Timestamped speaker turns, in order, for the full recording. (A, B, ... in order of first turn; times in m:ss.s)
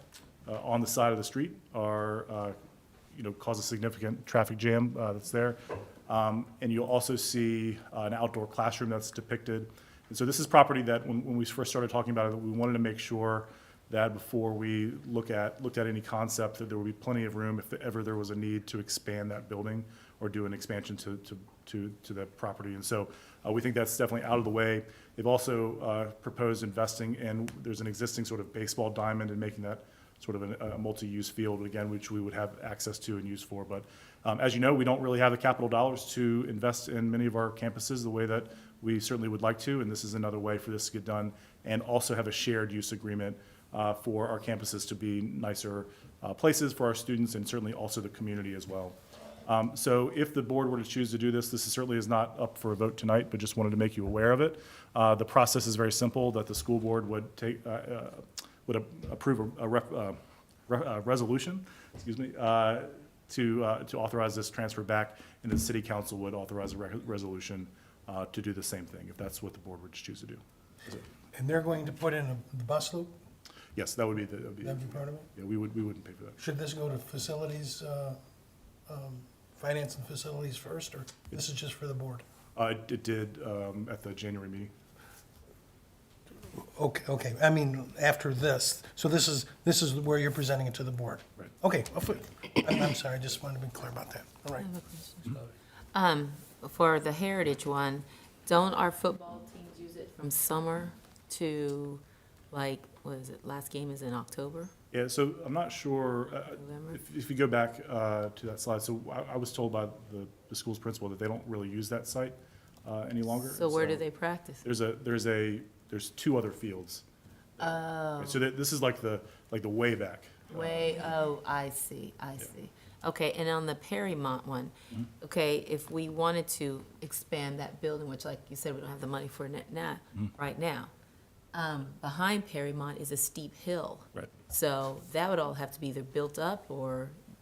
0:00.5-0:02.6 A
0:03.1-1:11.0 A
1:11.3-1:13.2 B
1:13.8-1:16.4 A
1:14.6-1:15.3 B
1:16.4-1:18.2 B
1:18.9-1:22.2 B
1:22.6-1:24.7 A
1:26.4-1:34.7 B
1:34.6-1:35.4 C
1:35.9-1:44.7 C
1:44.9-1:54.0 A
1:46.5-1:47.0 C
1:53.4-1:54.6 C
1:54.6-1:57.0 A
1:57.6-1:58.4 C
1:57.6-2:01.1 A
2:00.5-2:10.9 C
2:11.5-2:17.2 C